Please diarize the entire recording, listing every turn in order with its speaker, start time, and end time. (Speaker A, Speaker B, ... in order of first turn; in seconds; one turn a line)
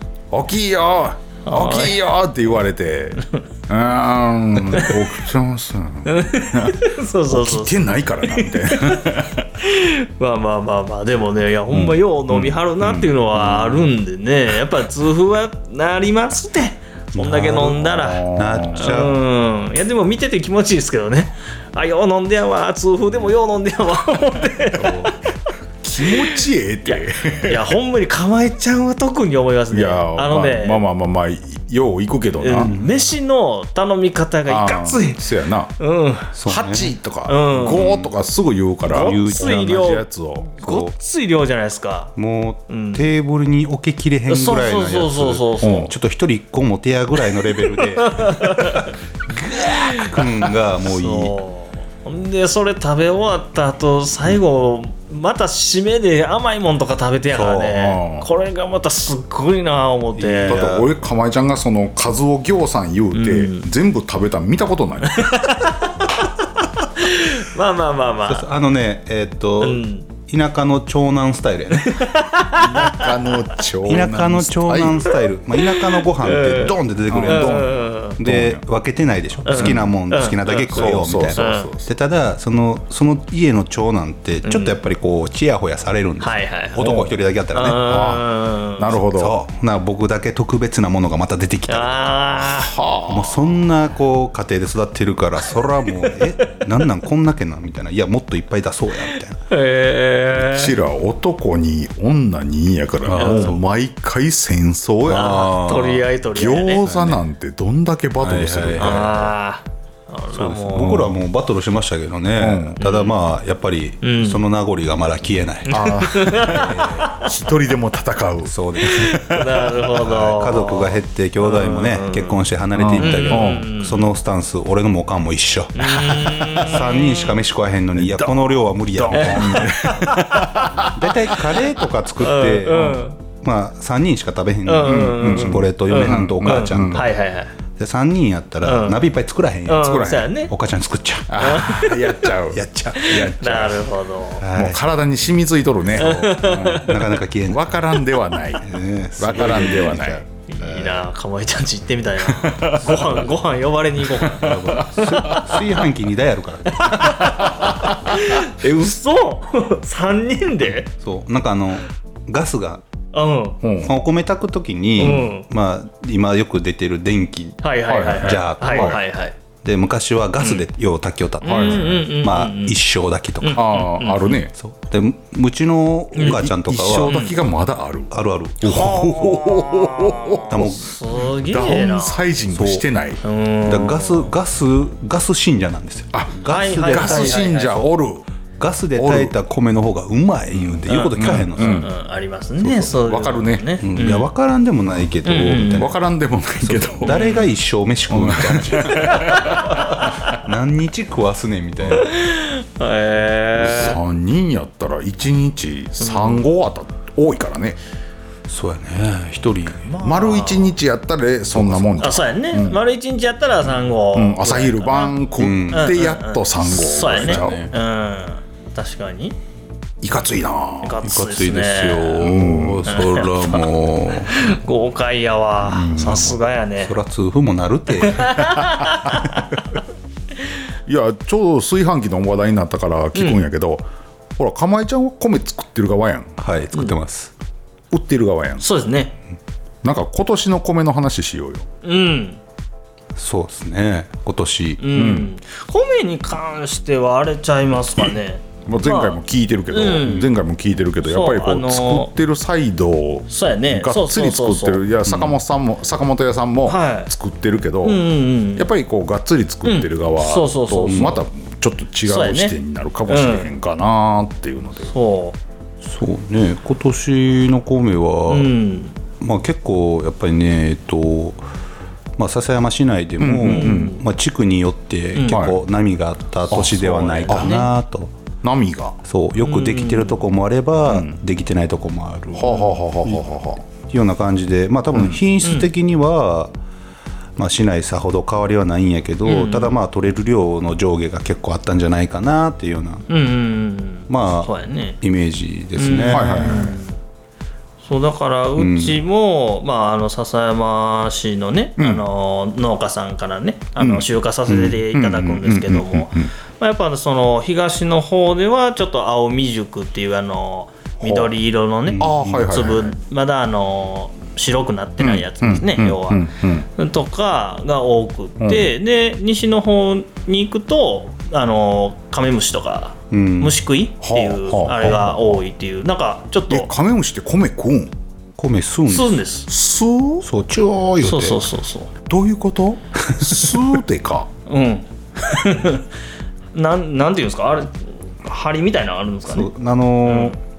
Speaker A: 0.3-9.5
Speaker B: 1.4-2.0
Speaker B: 4.7-5.0
Speaker B: 6.0-25.2
Speaker A: 11.7-13.1
Speaker C: 13.3-13.9
Speaker C: 17.1-17.7
Speaker A: 17.4-19.0
Speaker C: 18.4-19.2
Speaker C: 24.8-25.1
Speaker A: 25.8-27.7
Speaker B: 26.9-30.8
Speaker A: 29.7-32.8
Speaker B: 32.4-35.2
Speaker C: 32.6-33.1
Speaker A: 34.5-35.7
Speaker B: 35.8-36.4
Speaker C: 36.3-36.9
Speaker A: 36.5-40.5
Speaker B: 37.3-37.9
Speaker C: 37.7-38.1
Speaker B: 38.9-42.1
Speaker C: 38.9-39.9
Speaker C: 40.6-40.9
Speaker C: 42.2-51.3
Speaker B: 42.7-43.1
Speaker B: 44.3-45.9
Speaker A: 45.6-45.9
Speaker B: 47.8-48.9
Speaker B: 49.5-50.1
Speaker B: 50.8-60.6
Speaker C: 57.3-57.8
Speaker A: 57.7-58.3
Speaker C: 60.1-60.9
Speaker A: 60.5-65.5
Speaker B: 63.1-63.7
Speaker B: 65.0-66.3
Speaker B: 67.0-68.5
Speaker C: 68.2-72.2
Speaker B: 69.6-70.1
Speaker B: 71.7-73.6
Speaker A: 72.5-75.2
Speaker C: 73.8-88.2
Speaker B: 75.1-78.2
Speaker A: 77.1-78.6
Speaker B: 79.5-81.7
Speaker A: 79.5-79.9
Speaker A: 80.7-81.9
Speaker B: 84.5-84.8
Speaker B: 86.2-87.0
Speaker A: 86.8-87.2
Speaker B: 87.5-89.0
Speaker A: 87.8-89.5
Speaker C: 89.0-92.1
Speaker B: 91.7-92.8
Speaker A: 92.4-93.6
Speaker C: 93.1-99.4
Speaker B: 95.5-96.7
Speaker B: 99.1-100.8
Speaker A: 100.4-105.5
Speaker C: 103.0-103.6
Speaker B: 103.2-103.6
Speaker C: 105.1-106.1
Speaker B: 105.1-106.8
Speaker A: 106.3-109.2
Speaker C: 106.8-107.2
Speaker C: 108.2-109.3
Speaker B: 108.8-111.1
Speaker C: 110.3-117.2
Speaker A: 110.8-111.1
Speaker A: 112.4-112.8
Speaker B: 112.8-113.2
Speaker B: 114.0-114.4
Speaker B: 115.7-117.2
Speaker A: 115.7-119.6
Speaker C: 118.5-129.7
Speaker B: 119.2-122.4
Speaker A: 122.7-123.7
Speaker B: 123.0-124.1
Speaker B: 125.8-127.4
Speaker A: 128.0-128.3
Speaker B: 129.0-130.7
Speaker A: 129.1-131.6
Speaker C: 130.9-137.1
Speaker B: 132.2-133.2
Speaker B: 134.7-137.5
Speaker A: 134.8-137.1
Speaker C: 137.8-141.5
Speaker B: 138.6-139.0
Speaker B: 139.7-140.5
Speaker A: 139.8-140.3
Speaker A: 141.3-143.6
Speaker B: 141.4-142.3
Speaker C: 142.5-143.9
Speaker B: 143.0-144.4
Speaker C: 144.4-144.8
Speaker A: 144.5-150.2
Speaker B: 146.0-147.1
Speaker C: 146.0-147.7
Speaker C: 148.6-151.1
Speaker B: 150.5-155.5
Speaker A: 152.2-153.1
Speaker A: 154.2-155.6
Speaker C: 154.3-157.8
Speaker B: 156.8-160.9
Speaker A: 157.0-158.2
Speaker C: 161.0-162.8
Speaker B: 163.1-163.6
Speaker A: 163.6-163.9
Speaker C: 163.8-167.6
Speaker B: 165.0-165.5
Speaker B: 167.6-169.3
Speaker A: 167.9-169.0
Speaker C: 168.2-169.0
Speaker C: 169.6-173.6
Speaker B: 171.4-172.8
Speaker A: 171.4-172.1
Speaker B: 173.4-174.4
Speaker A: 173.5-174.5
Speaker C: 174.6-177.2
Speaker B: 176.2-176.4
Speaker A: 176.2-183.2
Speaker B: 177.1-177.4
Speaker C: 178.1-178.9
Speaker B: 178.6-182.2
Speaker C: 180.5-181.0
Speaker C: 182.5-182.8
Speaker B: 183.2-184.3
Speaker C: 183.7-187.6
Speaker A: 186.1-188.3
Speaker B: 186.4-187.9
Speaker C: 188.6-191.9
Speaker A: 189.0-189.3
Speaker A: 190.5-191.9
Speaker B: 190.9-194.3
Speaker C: 192.6-192.9
Speaker A: 192.9-193.7
Speaker C: 193.8-196.0
Speaker B: 195.2-195.9
Speaker A: 195.7-197.2
Speaker C: 196.6-202.1
Speaker B: 197.0-197.5
Speaker A: 198.1-199.9
Speaker B: 198.9-200.4
Speaker B: 201.9-204.0
Speaker C: 203.6-203.9
Speaker A: 203.6-207.8
Speaker B: 206.0-206.5
Speaker C: 208.5-209.9
Speaker B: 209.8-210.8
Speaker A: 210.0-212.8
Speaker C: 211.5-212.2
Speaker B: 212.0-215.2
Speaker A: 214.1-217.6
Speaker C: 215.4-216.0
Speaker B: 215.7-219.4
Speaker C: 217.0-217.7
Speaker A: 220.0-221.0
Speaker B: 220.8-223.7
Speaker C: 221.0-224.4
Speaker A: 222.2-222.9
Speaker B: 224.3-226.9
Speaker A: 225.7-226.3
Speaker C: 225.7-228.6
Speaker B: 228.0-229.6
Speaker A: 230.9-233.8
Speaker B: 233.2-233.5
Speaker A: 234.4-236.3
Speaker C: 236.4-237.3
Speaker A: 237.9-238.7
Speaker B: 238.6-239.2
Speaker A: 239.8-241.7
Speaker B: 241.8-242.4
Speaker C: 243.2-244.8
Speaker B: 244.8-249.2
Speaker A: 244.9-245.3
Speaker A: 248.7-258.1
Speaker B: 249.7-250.3
Speaker B: 251.0-252.1
Speaker B: 253.3-254.8
Speaker C: 255.1-255.3
Speaker B: 256.7-257.1
Speaker B: 257.8-258.7
Speaker A: 258.6-264.9
Speaker B: 259.6-261.2
Speaker C: 260.9-261.1
Speaker B: 262.1-263.5
Speaker B: 264.9-265.4
Speaker C: 265.8-268.5
Speaker B: 268.3-269.0
Speaker C: 269.2-271.4
Speaker C: 272.2-278.1
Speaker A: 273.2-274.0
Speaker B: 273.4-274.0
Speaker B: 275.1-275.4
Speaker A: 275.3-275.6
Speaker A: 276.5-277.6
Speaker B: 276.5-277.7
Speaker A: 278.4-279.0
Speaker C: 279.1-283.2
Speaker B: 279.4-280.2
Speaker A: 280.9-281.2
Speaker A: 282.4-283.6
Speaker B: 282.5-282.7
Speaker C: 283.9-286.5
Speaker A: 284.9-285.2
Speaker B: 285.4-285.7
Speaker C: 287.4-293.1
Speaker B: 289.2-289.8
Speaker B: 293.1-295.0
Speaker C: 294.1-296.3
Speaker B: 295.8-297.0
Speaker A: 296.1-296.8
Speaker B: 297.8-326.7
Speaker C: 298.6-299.0
Speaker A: 301.8-302.1
Speaker A: 303.8-304.1
Speaker C: 304.5-305.4
Speaker A: 305.1-306.3
Speaker A: 311.0-311.3
Speaker C: 311.9-312.5
Speaker A: 312.0-313.0
Speaker A: 315.0-316.7
Speaker A: 318.4-318.7
Speaker C: 323.1-323.6
Speaker A: 324.0-325.4
Speaker A: 326.5-327.9
Speaker C: 328.4-329.2
Speaker B: 328.9-329.5
Speaker A: 329.5-330.3
Speaker C: 330.2-331.4
Speaker B: 331.0-331.9
Speaker A: 332.1-334.3
Speaker B: 334.5-335.9
Speaker B: 336.5-339.5
Speaker C: 339.3-340.4
Speaker B: 340.1-340.4